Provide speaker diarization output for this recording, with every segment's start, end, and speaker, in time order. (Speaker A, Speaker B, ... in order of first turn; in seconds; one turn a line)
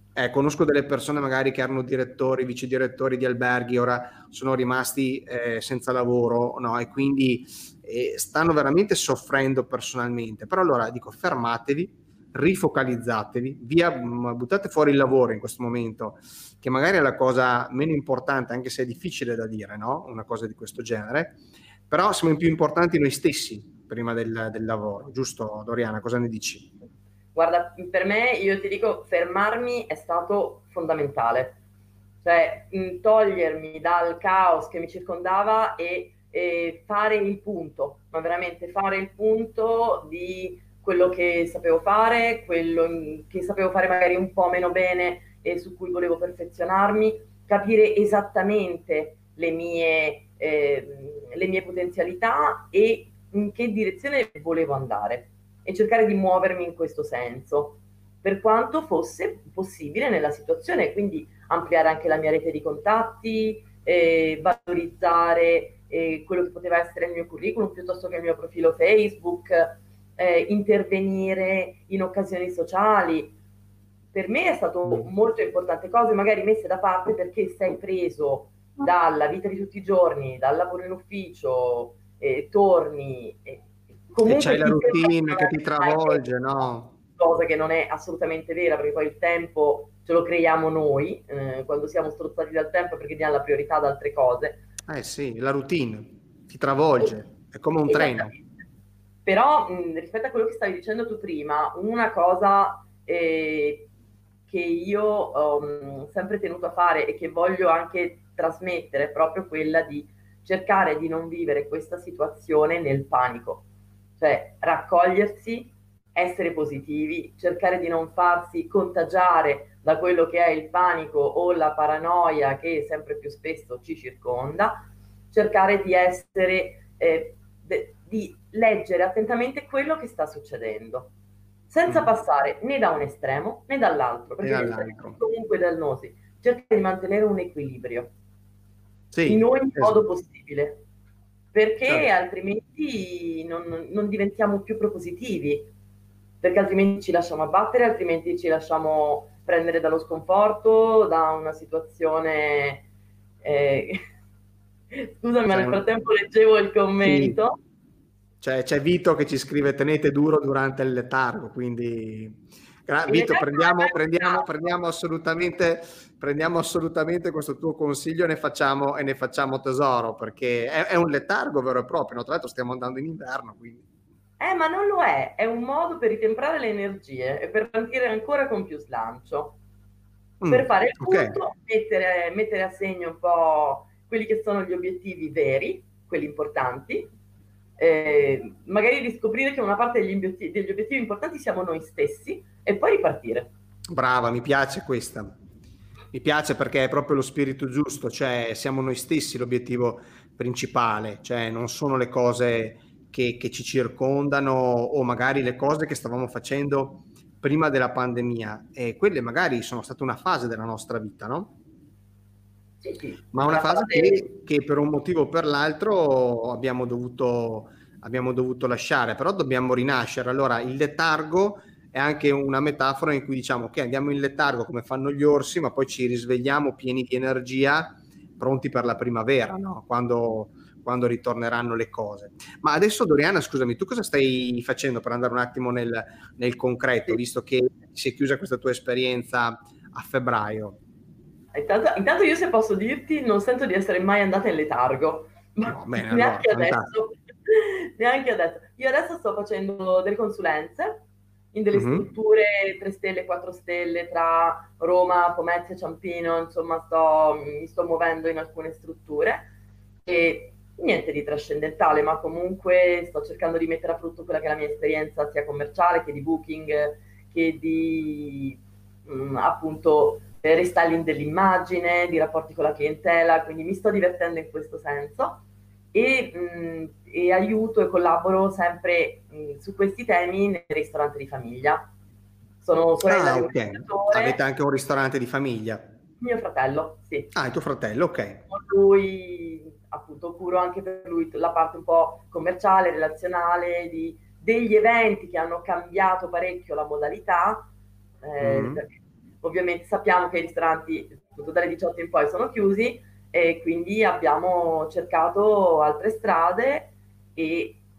Speaker A: 0.2-26.7
Speaker B: 27.4-31.6
Speaker B: 32.2-73.3
Speaker B: 74.1-86.4
Speaker A: 84.2-86.9
Speaker B: 87.2-94.6
Speaker A: 94.9-98.3
Speaker B: 97.9-98.4
Speaker B: 99.2-103.9
Speaker B: 104.5-113.7
Speaker B: 114.2-131.1
Speaker B: 131.7-138.1
Speaker A: 131.9-132.1
Speaker A: 134.4-135.2
Speaker A: 139.1-140.0
Speaker B: 139.3-140.8
Speaker B: 141.5-145.7
Speaker B: 146.4-152.9
Speaker B: 153.4-154.0
Speaker B: 154.9-157.6
Speaker A: 155.5-155.8
Speaker A: 157.0-157.4
Speaker A: 158.4-173.8
Speaker B: 163.1-164.5
Speaker B: 174.4-179.6
Speaker A: 180.4-181.3
Speaker B: 180.4-187.1
Speaker B: 187.8-193.5
Speaker A: 193.9-195.4
Speaker A: 196.1-211.5
Speaker B: 212.8-214.2
Speaker A: 213.3-240.8
Speaker B: 241.5-251.0
Speaker A: 245.6-246.9
Speaker B: 251.5-259.5
Speaker A: 251.7-252.1
Speaker B: 260.1-281.9
Speaker B: 282.6-284.4
Speaker A: 283.0-285.9
Speaker B: 286.2-287.3
Speaker A: 287.3-288.4
Speaker B: 288.5-297.7
Speaker B: 298.2-307.8
Speaker A: 298.4-298.8